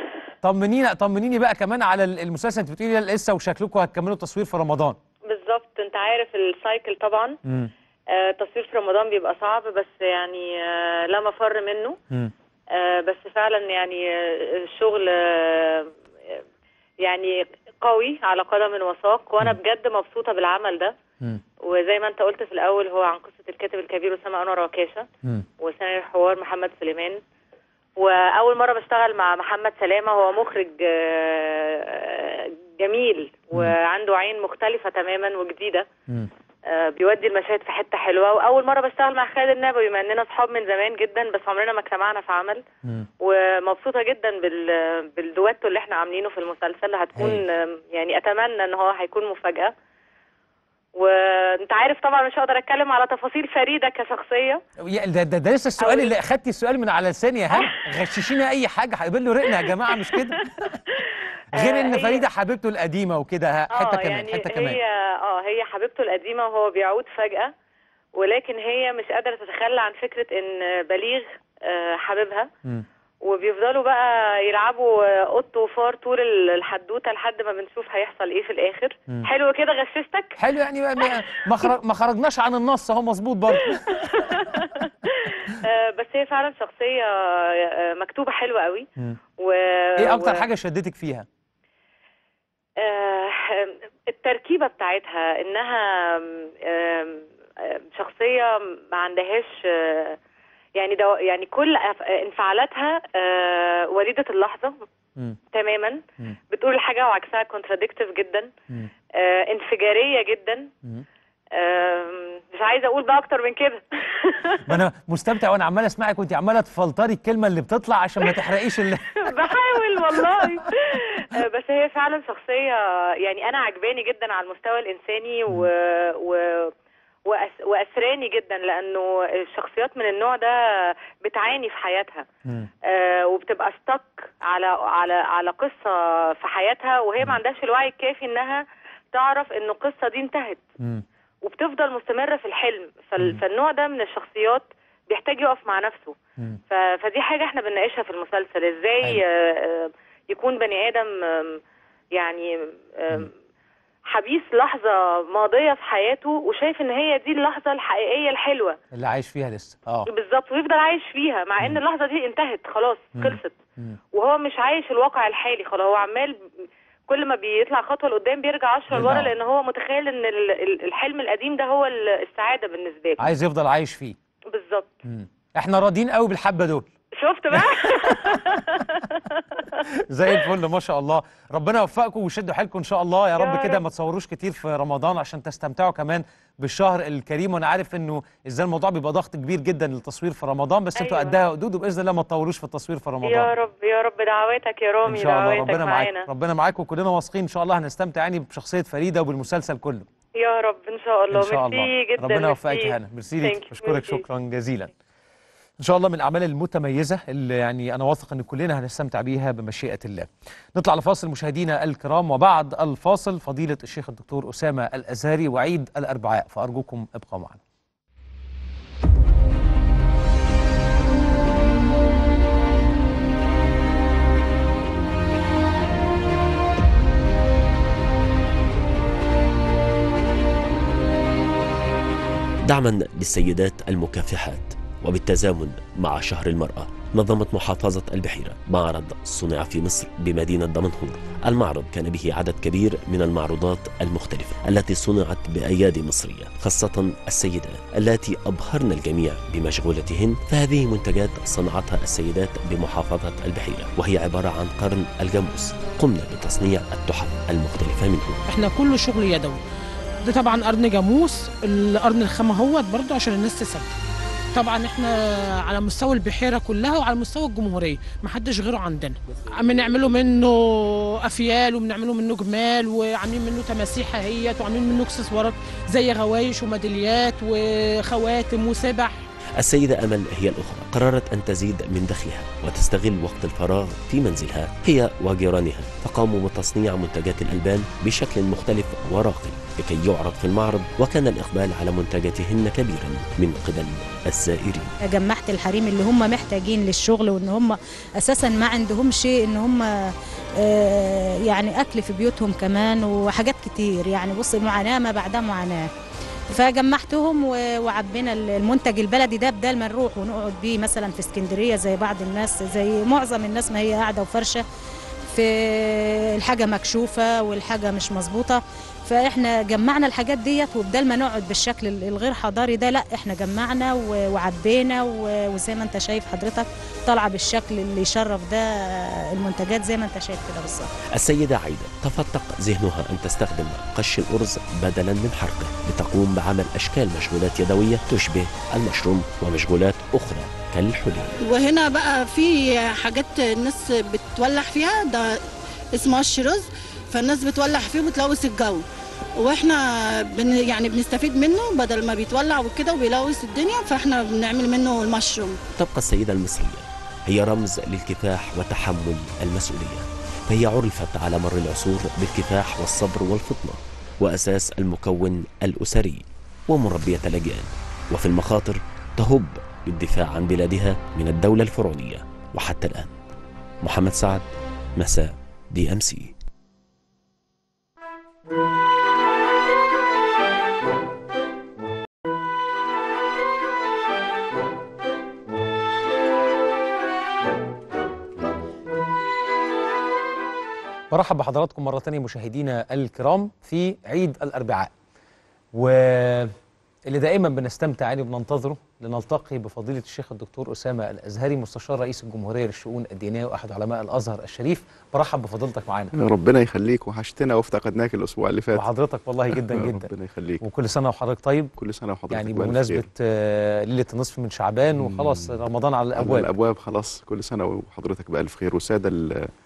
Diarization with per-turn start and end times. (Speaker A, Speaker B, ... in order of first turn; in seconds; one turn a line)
Speaker A: 0.4-5.0
Speaker B: 5.3-7.3
Speaker A: 7.4-7.7
Speaker B: 8.1-12.0
Speaker B: 12.8-15.9
Speaker B: 17.0-20.9
Speaker B: 21.6-25.1
Speaker B: 25.6-27.2
Speaker B: 28.0-35.9
Speaker B: 36.7-42.6
Speaker B: 43.2-49.7
Speaker B: 51.0-54.6
Speaker A: 54.8-60.8
Speaker B: 55.8-56.1
Speaker B: 59.9-60.3
Speaker A: 61.5-64.8
Speaker B: 61.6-62.2
Speaker B: 63.8-67.5
Speaker B: 68.2-72.5
Speaker B: 73.2-80.3
Speaker A: 80.4-84.5
Speaker B: 83.8-84.9
Speaker B: 85.5-88.9
Speaker B: 89.4-90.4
Speaker A: 90.0-91.2
Speaker B: 92.8-100.1
Speaker B: 100.8-104.8
Speaker B: 105.5-108.5
Speaker B: 109.2-110.7
Speaker B: 111.5-114.7
Speaker A: 114.7-119.3
Speaker B: 119.3-126.7
Speaker B: 127.3-130.5
Speaker B: 131.2-132.2
Speaker B: 132.9-138.6
Speaker B: 139.1-140.6
Speaker B: 141.4-146.2
Speaker B: 146.7-151.6
Speaker B: 152.2-153.3
Speaker B: 154.1-158.8
Speaker A: 158.9-160.1
Speaker B: 160.1-163.6
Speaker A: 163.2-164.0
Speaker B: 164.1-166.3
Speaker B: 167.1-173.2
Speaker A: 168.9-169.3
Speaker A: 173.2-174.2
Speaker B: 174.5-174.9
Speaker A: 175.1-176.9
Speaker B: 177.2-179.6
Speaker A: 180.1-193.5
Speaker B: 183.4-183.8
Speaker B: 191.0-191.3
Speaker B: 193.2-196.2
Speaker A: 195.1-200.1
Speaker B: 200.4-204.2
Speaker A: 201.3-204.9
Speaker A: 205.8-217.6
Speaker C: 232.7-258.4
Speaker D: 258.5-259.6
Speaker D: 260.3-263.9
Speaker D: 264.5-265.1
Speaker D: 265.6-279.2
Speaker C: 279.6-294.9
Speaker E: 295.1-305.9
Speaker E: 306.5-314.6
Speaker E: 315.3-330.9
Speaker C: 331.1-341.3
Speaker F: 341.4-345.2
Speaker F: 345.9-348.8
Speaker F: 349.4-349.8
Speaker F: 350.4-355.6
Speaker C: 355.7-373.2
Speaker C: 373.8-376.3
Speaker A: 391.1-394.9
Speaker A: 395.7-396.5
Speaker A: 397.1-406.1
Speaker G: 406.1-408.9
Speaker A: 408.8-410.1
Speaker G: 409.5-410.6
Speaker A: 410.6-411.7
Speaker G: 411.8-413.1
Speaker A: 412.3-416.5
Speaker G: 414.9-415.6
Speaker G: 416.1-419.5